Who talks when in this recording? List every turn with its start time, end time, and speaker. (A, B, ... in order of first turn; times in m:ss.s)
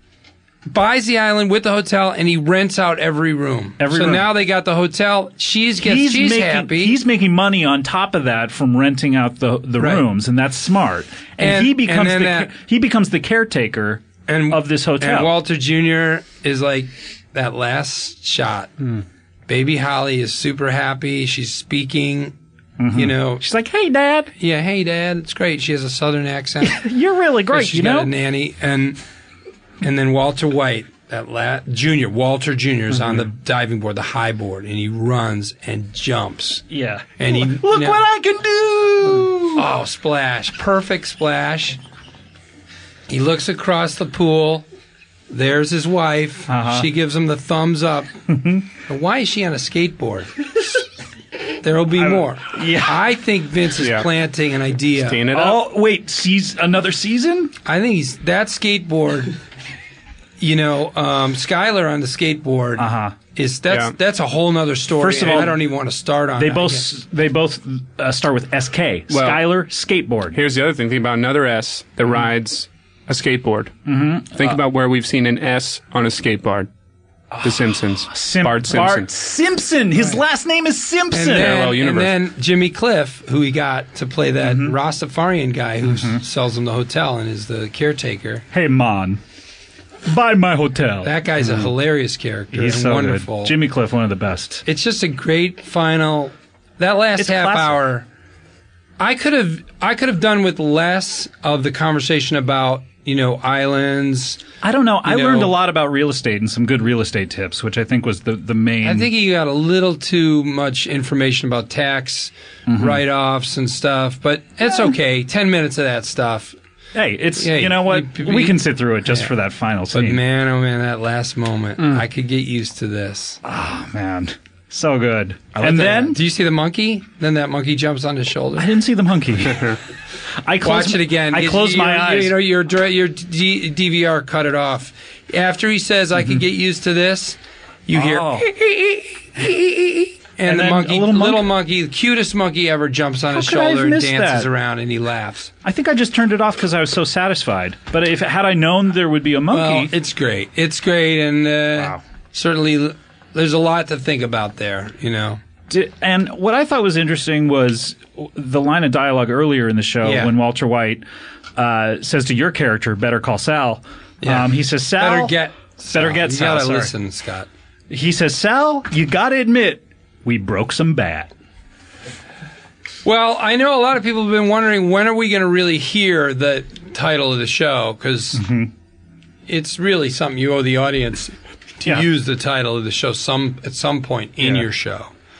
0:00.7-0:07.0 A
0:03.8-0:04.3 B
0:05.8-0:15.3 B
0:09.8-0:10.0 A
0:11.4-0:12.5 A
0:14.3-0:18.7 A
0:19.5-0:22.4 A
0:22.8-0:24.3 B
0:22.9-0:23.4 A
0:24.4-0:26.8 A
0:26.6-0:28.1 B
0:27.5-0:29.0 A
0:29.8-0:36.6 A
0:32.9-0:33.3 B
0:36.7-0:39.6 B
0:37.2-0:38.0 A
0:39.5-0:41.8 A
0:43.1-0:44.6 A
0:45.3-0:48.1 A
0:46.5-0:46.9 B
0:48.3-0:48.6 B
0:48.7-0:50.3 A
0:51.6-0:55.2 A
0:52.0-0:53.0 B
0:53.8-0:54.1 C
0:54.9-0:55.6 C
0:55.3-0:57.5 B
0:57.6-0:59.3 A
1:00.4-1:06.9 A
1:02.8-1:03.2 B
1:03.7-1:03.9 C
1:05.0-1:05.6 B
1:06.4-1:10.4 B
1:09.1-1:09.4 C
1:10.3-1:13.7 C
1:13.9-1:14.6 B
1:14.3-1:16.7 C
1:17.3-1:21.7 B
1:17.4-1:19.1 C
1:21.1-1:28.4 A
1:21.5-1:22.2 C
1:24.4-1:24.8 B
1:25.8-1:26.2 B
1:28.5-1:29.2 B
1:30.1-1:31.7 B
1:31.0-1:33.6 A
1:32.5-1:34.6 B
1:34.6-1:38.0 A
1:37.2-1:37.8 B
1:39.0-1:44.4 A
1:44.6-1:49.1 B
1:45.0-1:45.5 A
1:48.8-1:56.6 A
1:52.7-1:53.0 B
1:56.9-2:00.2 B
1:57.4-1:59.3 A
1:59.9-2:03.4 A
2:03.4-2:06.2 B
2:05.6-2:08.7 A
2:08.6-2:09.8 B
2:10.4-2:12.4 B
2:10.6-2:25.5 A
2:16.2-2:16.4 B
2:17.9-2:18.5 B
2:20.4-2:21.5 B
2:23.3-2:24.5 B
2:25.6-2:29.9 B
2:29.5-2:35.4 A
2:31.7-2:32.0 B
2:35.7-2:41.0 B
2:40.0-2:40.3 A
2:41.6-2:45.4 B
2:44.2-2:47.5 A
2:45.9-2:46.9 B
2:47.9-2:51.3 B
2:53.0-2:58.4 A
2:58.3-2:58.7 B
2:59.5-3:05.1 A